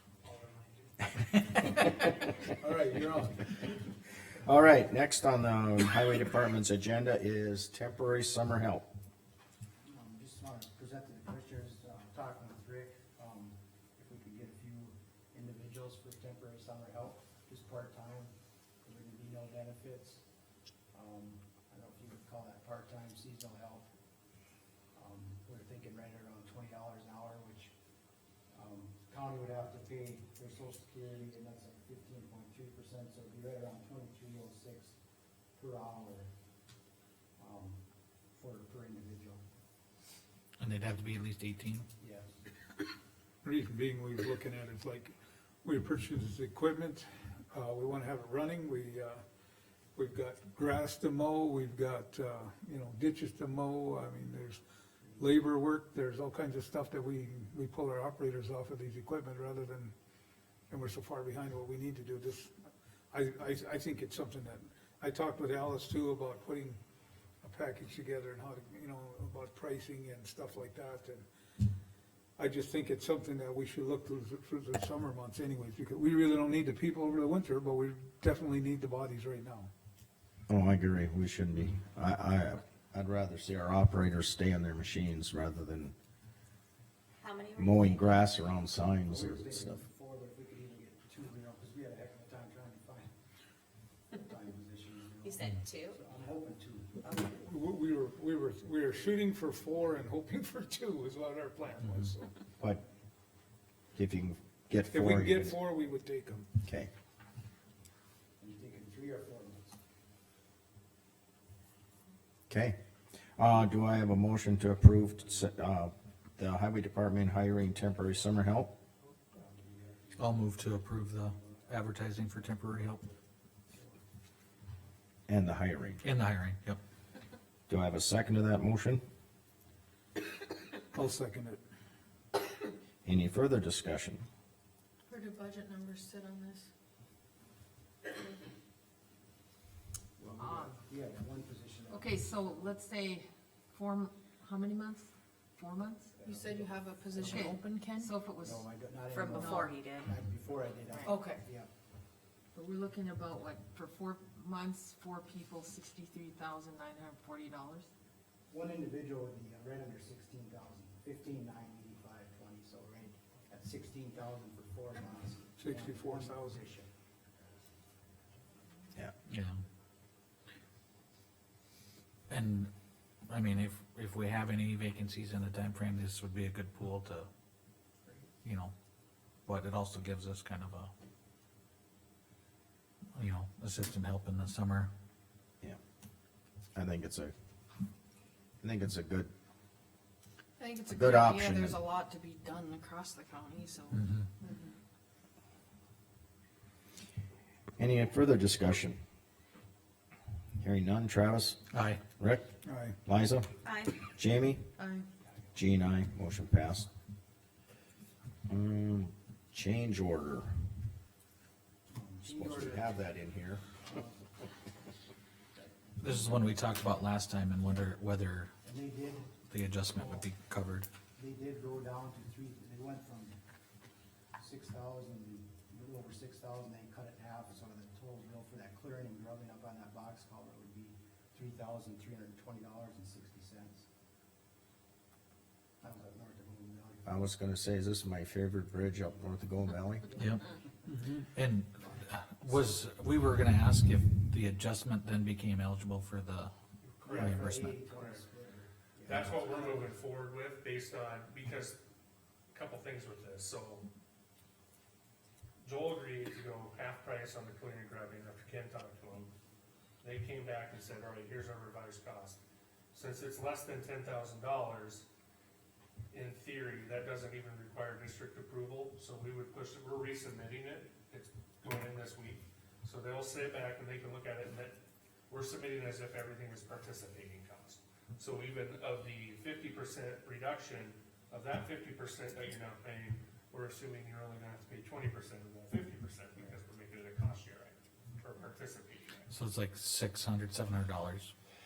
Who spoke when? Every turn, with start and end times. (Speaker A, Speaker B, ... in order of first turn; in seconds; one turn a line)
Speaker A: 2.7-3.3
Speaker B: 4.4-8.8
Speaker A: 9.8-18.3
Speaker A: 18.8-20.2
Speaker A: 20.9-23.9
Speaker A: 24.9-27.7
Speaker A: 28.5-35.0
Speaker A: 35.5-36.3
Speaker A: 37.4-37.8
Speaker A: 38.3-39.4
Speaker C: 40.6-41.9
Speaker A: 42.0-42.3
Speaker D: 43.4-49.2
Speaker D: 50.0-54.6
Speaker D: 55.2-59.9
Speaker D: 60.7-62.5
Speaker D: 63.1-66.8
Speaker D: 67.4-71.2
Speaker D: 72.4-79.7
Speaker B: 80.5-85.9
Speaker E: 87.2-88.1
Speaker B: 87.5-89.8
Speaker A: 89.0-93.1
Speaker A: 94.1-97.2
Speaker E: 95.2-96.0
Speaker D: 97.2-102.3
Speaker B: 104.0-105.6
Speaker D: 104.9-106.5
Speaker B: 106.6-106.9
Speaker A: 108.4-109.8
Speaker B: 112.5-112.8
Speaker B: 113.4-118.7
Speaker A: 119.1-123.1
Speaker D: 120.2-121.3
Speaker C: 120.3-123.0
Speaker D: 122.5-122.9
Speaker A: 123.7-124.0
Speaker B: 125.3-126.0
Speaker C: 126.0-126.8
Speaker B: 127.7-129.0
Speaker D: 130.9-131.6
Speaker B: 133.0-134.2
Speaker F: 135.1-136.7
Speaker A: 140.2-142.8
Speaker G: 140.4-140.8
Speaker G: 141.9-146.1
Speaker A: 146.1-147.6
Speaker F: 146.2-148.2
Speaker G: 147.2-149.9
Speaker A: 148.4-151.7
Speaker E: 149.1-150.1
Speaker F: 151.1-151.4
Speaker G: 152.5-157.9
Speaker A: 158.5-166.9
Speaker D: 165.6-166.6
Speaker C: 172.3-172.7
Speaker C: 173.3-177.3
Speaker C: 178.4-178.7
Speaker C: 179.4-180.9
Speaker C: 183.1-184.9
Speaker B: 186.7-187.3
Speaker B: 188.6-189.3
Speaker F: 190.6-194.7
Speaker B: 190.9-191.8
Speaker B: 197.8-199.0
Speaker B: 200.6-201.6
Speaker C: 201.7-202.0
Speaker B: 202.2-202.4
Speaker D: 202.7-202.9
Speaker B: 203.1-203.5
Speaker E: 203.6-204.0
Speaker B: 204.0-204.6
Speaker F: 204.8-205.1
Speaker B: 205.5-206.9
Speaker B: 208.5-210.5
Speaker A: 211.9-213.0
Speaker B: 212.3-213.6
Speaker A: 213.8-214.3
Speaker A: 215.6-216.5
Speaker C: 216.0-218.5
Speaker A: 218.6-219.3
Speaker C: 219.5-220.9
Speaker A: 221.2-223.3
Speaker A: 224.4-233.8
Speaker A: 235.8-237.3
Speaker B: 237.1-240.1
Speaker A: 240.1-240.4
Speaker D: 240.9-241.6
Speaker C: 241.3-246.5
Speaker H: 246.9-248.2
Speaker A: 247.0-249.9
Speaker C: 247.2-247.7
Speaker H: 249.0-251.8
Speaker H: 252.5-253.8
Speaker H: 255.6-259.3
Speaker H: 260.0-262.4
Speaker H: 262.9-265.1
Speaker H: 266.1-274.8
Speaker H: 275.3-289.3
Speaker C: 289.3-291.3